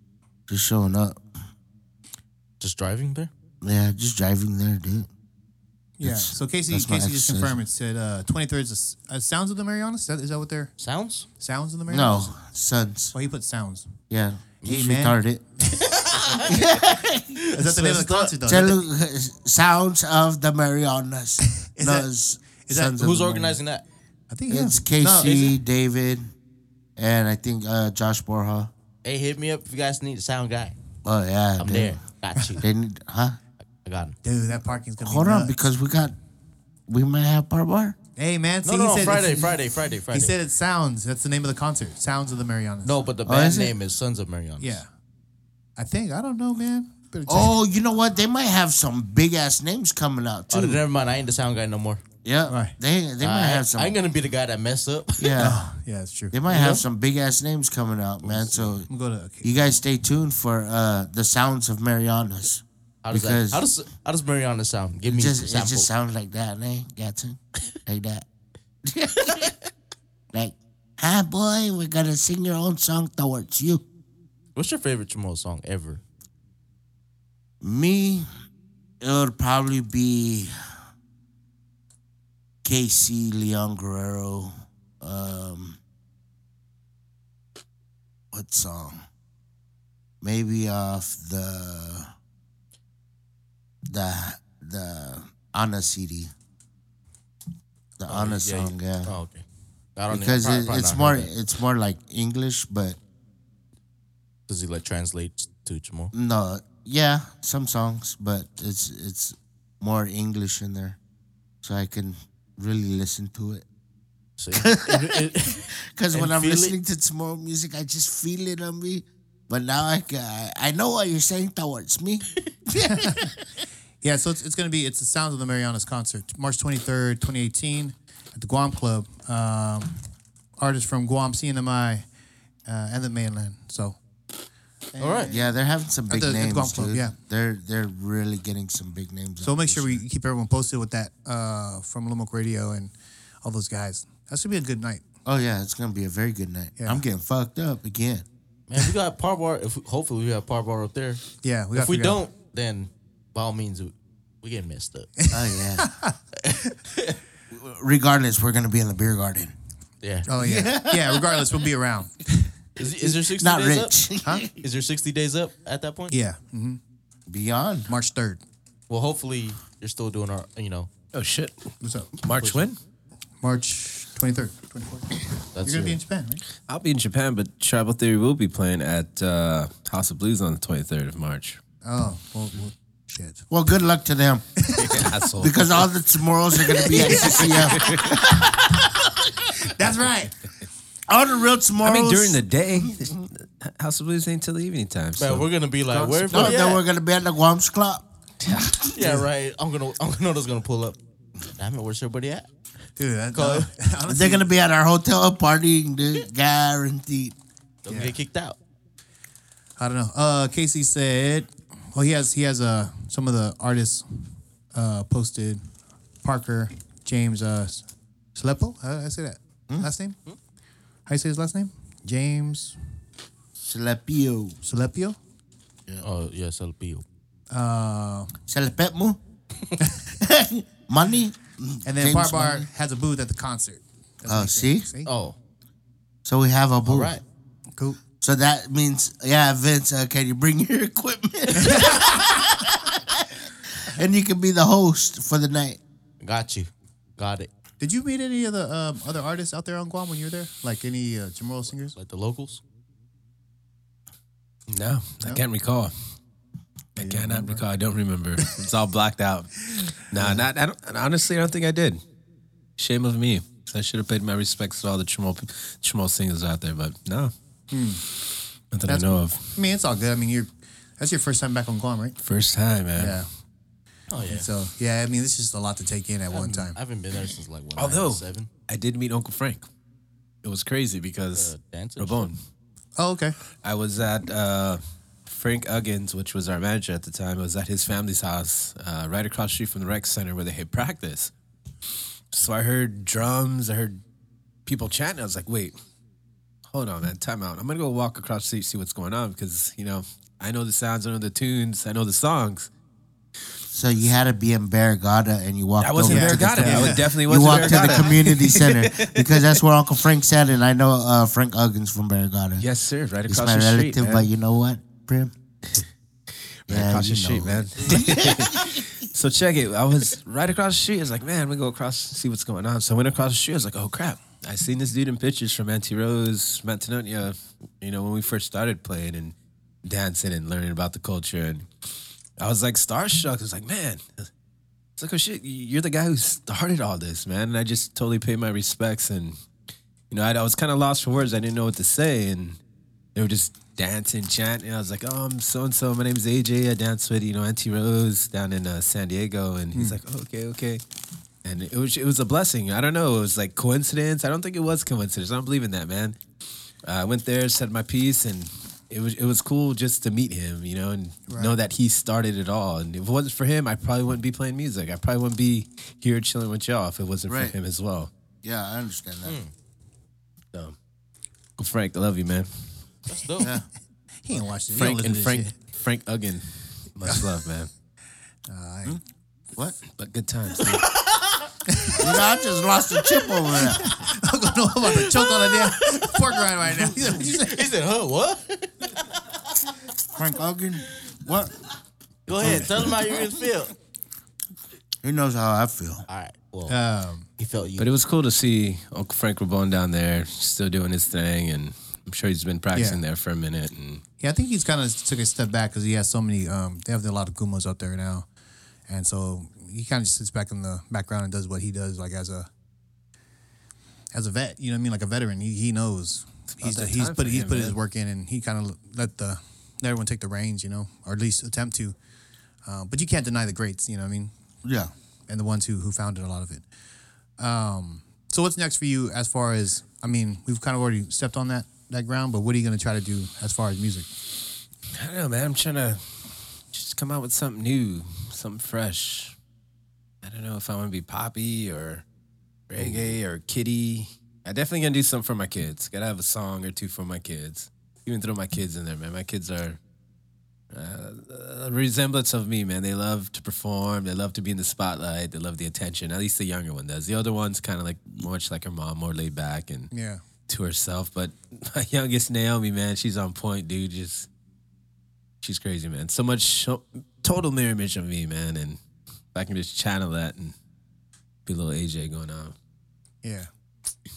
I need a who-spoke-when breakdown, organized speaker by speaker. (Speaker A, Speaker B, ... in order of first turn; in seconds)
Speaker A: 0.5-1.2, 3.6-5.1, 6.0-7.6, 11.9-13.1, 14.1-15.4, 16.4-17.4, 18.4-23.6, 24.5-26.3, 26.9-28.7, 31.0-32.0, 32.6-33.4, 35.0-36.1, 36.9-38.0, 43.2-43.8, 47.3-50.8, 52.2-54.0, 55.2-55.6, 56.3-58.9, 59.4-63.7, 65.0-68.2, 68.8-69.5, 70.3-73.8, 77.6-78.3, 79.0-80.5, 82.6-85.8, 88.3-89.0, 90.2-92.1, 93.9-96.3, 98.0-99.1, 100.1-103.0, 106.1-111.0, 111.6-113.6, 114.5-123.4, 135.2-140.0, 145.2-148.2, 155.3-155.9, 157.5-159.5, 160.3-161.6, 162.8-164.6, 167.3-167.9, 183.5-184.4, 185.4-188.2, 191.1-193.2, 196.3-198.1, 204.1-207.3, 223.6-224.6, 228.5-229.2, 230.1-232.7, 234.3-234.9, 236.2-237.2, 238.2-243.2, 243.8-245.8, 303.7-312.6, 313.3-315.3, 316.7-318.8, 367.3-367.6, 368.4-369.4, 373.4-373.7, 382.0-384.0, 390.1-391.5, 392.3-393.4, 395.0-396.1, 424.6-424.9
Speaker B: 2.6-3.3, 10.8-11.3, 15.8-16.6, 17.4-18.3, 22.9-23.8, 25.2-25.6, 29.0-30.8, 31.6-32.7, 33.8-34.2, 38.6-40.3, 42.8-44.8, 50.5-52.0, 53.2-55.4, 56.5-56.8, 58.3-58.7, 63.0-65.9, 74.5-76.0, 98.1-99.4, 100.0-101.3, 104.5-106.1, 114.4-116.7, 135.0-135.3, 148.7-151.2, 151.7-155.1, 156.4-157.2, 160.0-160.3, 162.8-163.9, 164.6-166.1, 168.9-170.9, 172.3-172.7, 175.5-176.0, 195.2-196.8, 198.9-201.0, 201.5-202.5, 203.3-203.7, 207.8-208.6, 226.0-227.0, 235.1-235.3, 236.8-237.2, 246.2-247.5, 251.9-252.6, 274.1-274.4, 276.3-278.5, 281.3-282.3, 369.2-369.5, 373.1-373.5, 380.6-381.4, 385.0-386.1, 386.9-389.2, 392.3-393.7, 396.1-396.8, 397.4-397.9
Speaker C: 6.0-10.7, 11.4-12.3, 13.1-13.9, 14.6-15.2, 17.5-18.8, 21.6-22.1, 22.6-23.0, 24.3-25.4, 34.2-35.6, 38.2-39.5, 40.1-43.0, 44.6-44.9, 45.8-47.5, 52.5-52.8, 55.4-56.4, 58.9-59.7, 122.7-123.3, 124.0-130.0, 130.6-132.0, 132.7-134.0, 134.9-135.5, 136.1-137.1, 139.4-145.0, 146.8-147.0, 151.4-152.2, 155.2-156.2, 160.2-162.5, 166.1-166.8, 167.9-168.4, 171.8-172.1, 173.4-176.4, 181.8-183.4, 184.6-185.1, 186.8-188.8, 189.4-190.3, 203.0-204.5, 207.9-208.2, 209.8-215.6, 216.2-220.2, 221.1-222.8, 224.6-225.2, 227.5-228.3, 229.8-230.0, 231.8-235.1, 241.6-242.3, 247.8-251.9, 257.0-257.6, 260.1-260.4, 267.7-268.0, 268.9-272.1, 272.9-273.3, 274.2-276.8, 283.0-283.3, 306.1-308.0, 349.7-350.0, 361.3-361.5, 374.2-375.5, 378.5-379.0, 381.7-382.1, 383.8-387.6, 396.7-397.3, 402.7-403.0, 404.2-408.2, 408.9-412.5, 414.1-421.9, 422.6-424.3, 425.3-426.6, 427.4-434.1, 442.8-443.1, 459.9-460.2, 473.2-473.5
Speaker D: 171.1-171.7, 172.2-172.8, 176.7-181.6, 184.8-185.8, 187.0-188.2, 191.8-196.6, 198.4-198.7, 254.7-255.9, 257.0-262.0, 262.8-267.3, 268.7-269.4, 272.2-273.2, 277.8-279.7, 280.4-282.4, 283.6-291.3, 292.3-294.0, 294.6-295.7, 296.7-302.7, 305.8-309.6, 312.6-314.3, 315.8-331.7, 332.4-334.3, 335.0-339.4, 340.1-342.6, 343.1-350.8, 351.4-356.2, 356.8-368.1, 371.6-372.5, 374.7-377.7, 379.9-380.8, 397.8-404.0, 416.5-417.8, 434.9-436.1, 436.7-439.4, 440.2-442.0, 442.7-449.8, 450.7-459.9, 460.5-464.3, 465.4-468.8, 469.3-470.5, 471.4-472.5